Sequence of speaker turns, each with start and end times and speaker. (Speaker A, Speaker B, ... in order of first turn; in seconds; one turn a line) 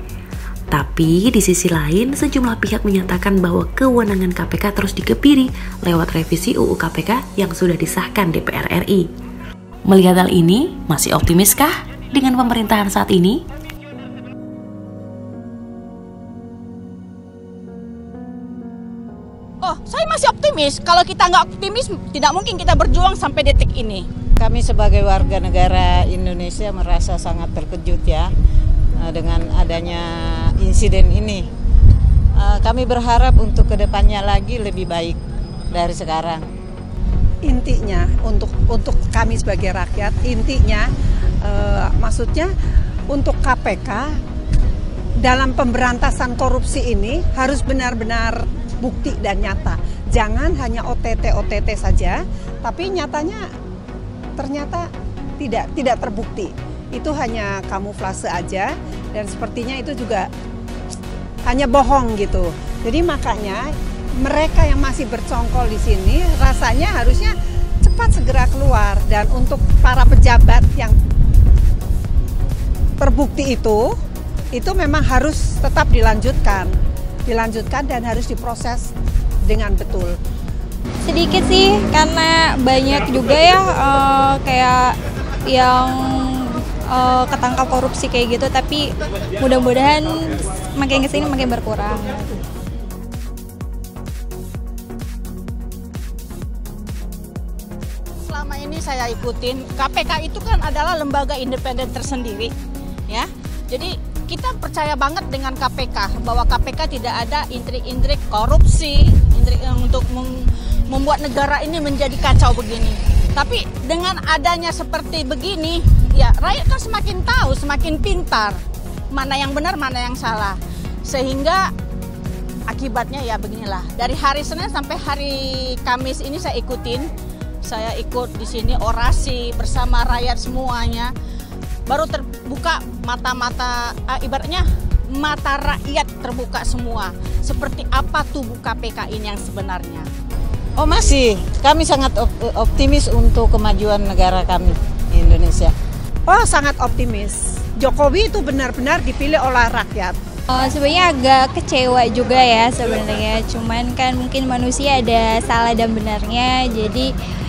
Speaker A: 0.7-9.1
Speaker A: 9.9-13.4
Speaker B: 19.6-24.1
Speaker C: 24.4-28.3
Speaker C: 29.0-31.5
Speaker C: 32.4-35.2
Speaker C: 35.7-36.5
Speaker D: 37.4-40.9
Speaker D: 41.4-42.5
Speaker D: 43.1-44.2
Speaker D: 45.2-53.5
Speaker D: 54.4-60.3
Speaker D: 61.5-71.0
Speaker D: 73.0-74.0
Speaker D: 74.5-78.9
Speaker D: 79.5-80.2
Speaker E: 81.0-85.0
Speaker E: 85.5-92.3
Speaker B: 98.2-102.5
Speaker B: 103.1-118.6
Speaker B: 119.1-121.7
Speaker B: 122.7-127.1
Speaker B: 127.6-131.1
Speaker B: 131.9-140.1
Speaker C: 140.8-145.7
Speaker D: 146.3-150.2
Speaker E: 150.5-157.1